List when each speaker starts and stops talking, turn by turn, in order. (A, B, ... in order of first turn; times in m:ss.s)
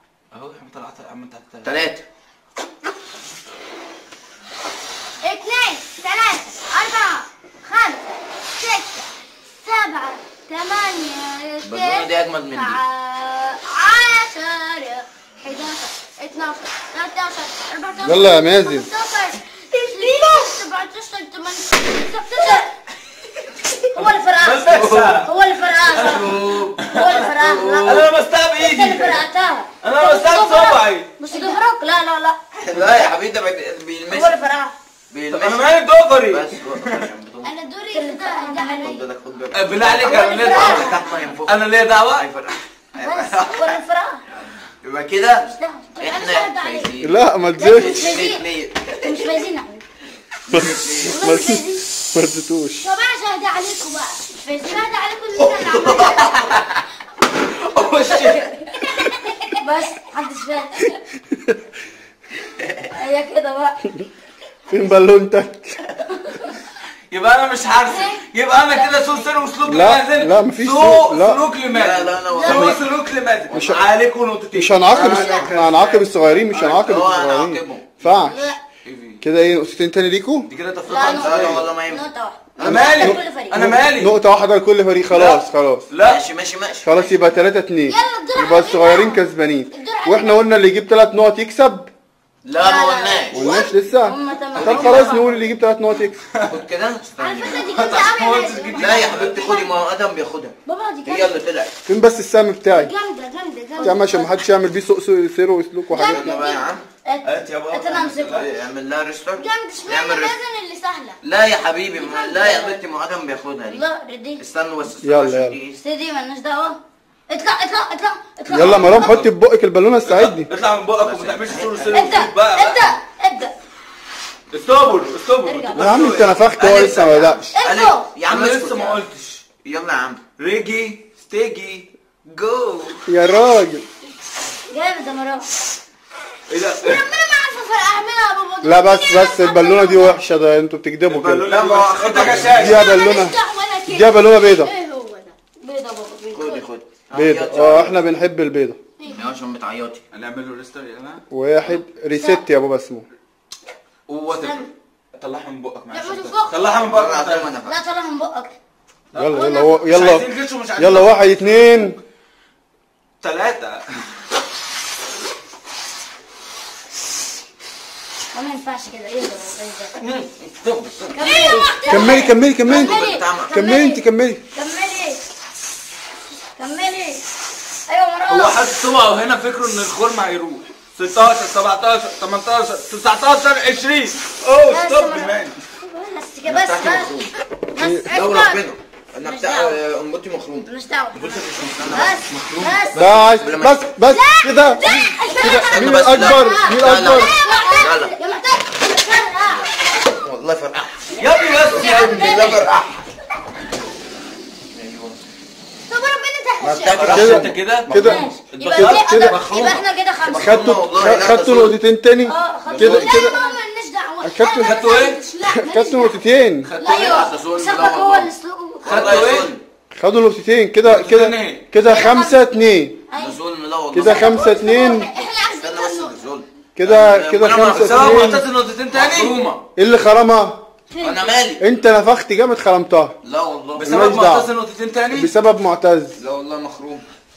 0:00.3-0:01.8 A
0:01.6-0:02.0 B
0:05.2-0:22.7 C
0:11.6-0:12.8 B
0:18.0-0:18.9 D
0:19.9-0:20.5 E
0:22.4-0:22.6 E
0:23.9-0:32.4 E
0:24.4-0:25.3 A
0:24.7-0:25.2 B
0:25.9-0:28.1 B
0:25.9-0:29.2 A
0:29.8-0:31.1 A
0:31.2-0:31.6 C
0:32.6-0:34.4 B
0:32.7-0:33.1 A
0:34.1-0:34.7 E
0:35.1-0:35.8 B
0:35.3-0:37.1 A
0:36.3-0:37.5 B
0:37.4-0:39.1 C
0:37.9-0:39.0 E
0:38.8-0:41.6 B
0:39.5-0:42.3 A
0:40.0-0:41.0 E
0:40.1-0:41.0 C
0:42.1-0:43.8 B
0:43.0-0:44.2 E
0:44.8-0:45.5 B
0:45.4-0:45.9 E
0:45.9-0:46.9 C
0:46.0-0:49.4 B
0:47.0-0:48.1 D
0:47.6-0:48.4 E
0:49.0-0:49.8 E
0:50.5-0:51.2 B
0:50.5-0:52.8 D
0:51.0-0:51.8 E
0:52.8-0:56.4 C
0:55.5-0:56.4 B
0:55.7-0:56.8 A
0:57.6-0:58.5 A
0:58.0-0:59.6 C
0:59.6-1:00.9 E
1:02.9-1:03.8 E
1:04.7-1:05.8 D
1:07.1-1:17.0 A
1:07.9-1:09.2 C
1:09.6-1:11.4 D
1:11.7-1:12.8 B
1:12.3-1:12.8 E
1:13.5-1:13.8 D
1:14.5-1:18.6 D
1:14.9-1:15.5 B
1:15.0-1:15.4 C
1:16.5-1:17.9 B
1:18.0-1:18.6 E
1:18.8-1:19.2 A
1:19.2-1:20.5 D
1:20.4-1:21.7 A
1:20.8-1:23.6 E
1:21.0-1:22.0 B
1:22.6-1:22.8 B
1:22.6-1:24.2 A
1:22.8-1:25.9 D
1:25.1-1:26.2 A
1:26.0-1:27.4 B
1:26.8-1:31.9 D
1:27.8-1:30.4 C
1:32.4-1:33.4 B
1:32.6-1:35.4 E
1:33.3-1:36.2 D
1:34.6-1:35.2 B
1:36.3-1:36.6 A
1:36.4-1:38.0 B
1:37.2-1:39.7 C
1:37.6-1:39.6 A
1:38.8-1:41.7 B
1:40.6-1:41.3 C
1:41.9-1:42.9 D
1:42.7-1:44.4 C
1:43.8-1:46.4 D
1:43.8-1:44.1 E
1:45.9-1:46.6 C
1:46.0-1:46.8 B
1:47.0-1:48.5 E
1:47.2-1:48.5 A
1:48.3-1:50.4 B
1:49.4-1:51.2 C
1:51.2-1:53.8 B
1:52.0-1:52.8 C
1:52.2-1:52.5 E
1:53.7-1:54.4 E
1:54.4-1:55.8 B
1:55.0-1:55.5 D
1:55.8-1:59.2 E
1:58.5-2:00.5 D
1:58.5-1:59.3 A
2:00.0-2:03.0 A
2:01.0-2:02.2 B
2:01.9-2:03.5 E
2:04.5-2:06.9 A
2:05.4-2:06.1 E
2:05.7-2:07.5 D
2:06.6-2:09.0 B
2:07.5-2:08.1 C
2:07.6-2:08.0 E
2:08.2-2:09.4 A
2:09.6-2:10.2 B
2:10.4-2:13.0 A
2:13.1-2:13.8 D
2:14.7-2:15.5 E
2:16.5-2:17.1 A
2:16.8-2:20.2 C
2:18.6-2:21.5 D
2:21.1-2:22.8 A
2:21.4-2:22.9 B
2:22.4-2:24.7 D
2:22.6-2:25.3 C
2:25.6-2:26.7 E
2:26.3-2:28.0 B
2:27.1-2:28.8 D
2:29.0-2:29.3 C
2:29.0-2:30.0 B
2:30.1-2:31.2 A
2:31.3-2:33.1 D
2:32.1-2:32.4 E
2:34.1-2:37.5 A
2:34.4-2:34.7 C
2:35.9-2:36.6 C
2:36.8-2:37.8 B
2:37.6-2:38.6 E
2:39.1-2:41.5 A
2:39.2-2:40.2 D
2:39.3-2:39.8 C
2:40.8-2:42.0 D
2:43.2-2:43.8 A
2:48.3-2:49.9 E
2:50.0-2:51.7 B
2:51.1-2:55.2 E
2:51.2-2:53.1 C
2:51.9-2:54.4 D
2:52.6-2:53.5 B
2:56.6-2:57.2 E
2:57.9-2:58.6 E
2:58.3-3:05.6 A
3:04.7-3:08.6 E
3:06.4-3:07.3 B
3:07.8-3:08.1 D
3:08.0-3:08.6 C
3:08.1-3:10.7 B
3:09.2-3:09.8 E
3:10.7-3:13.3 E
3:11.2-3:12.7 A
3:11.2-3:13.9 B
3:13.0-3:14.8 D
3:14.1-3:19.7 C
3:14.8-3:19.7 E
3:15.4-3:17.3 D
3:15.4-3:18.1 B
3:19.9-3:23.0 B
3:21.2-3:22.7 A
3:21.2-3:22.7 C
3:21.8-3:22.6 E
3:24.7-3:25.2 B
3:25.9-3:27.3 C
3:26.6-3:28.1 B
3:26.9-3:29.2 A
3:27.0-3:29.4 D
3:27.9-3:30.7 E
3:29.1-3:31.8 B
3:30.3-3:33.3 D
3:32.2-3:33.6 E
3:32.7-3:33.2 B
3:32.8-3:36.2 C
3:34.2-3:34.8 D
3:34.5-3:35.2 A
3:35.5-3:36.7 D
3:36.6-3:37.3 A
3:36.8-3:37.3 C
3:36.8-3:39.2 E
3:36.8-3:39.6 B
3:38.8-3:39.5 A
3:39.9-3:43.0 D
3:40.8-3:41.7 A
3:41.8-3:42.4 E
3:43.1-3:43.4 E
3:43.2-3:44.5 B
3:43.9-3:45.1 D
3:44.0-3:46.2 C
3:45.6-3:48.4 B
3:46.8-3:48.4 D
3:47.5-3:49.4 A
3:48.9-3:49.6 B
3:49.8-3:50.6 D
3:51.0-3:51.3 C
3:51.0-3:51.6 B
3:51.6-3:53.2 D
3:53.2-3:53.9 B
3:53.7-3:55.3 A
3:53.8-3:54.5 D
3:55.1-3:56.2 D
3:56.2-3:57.0 B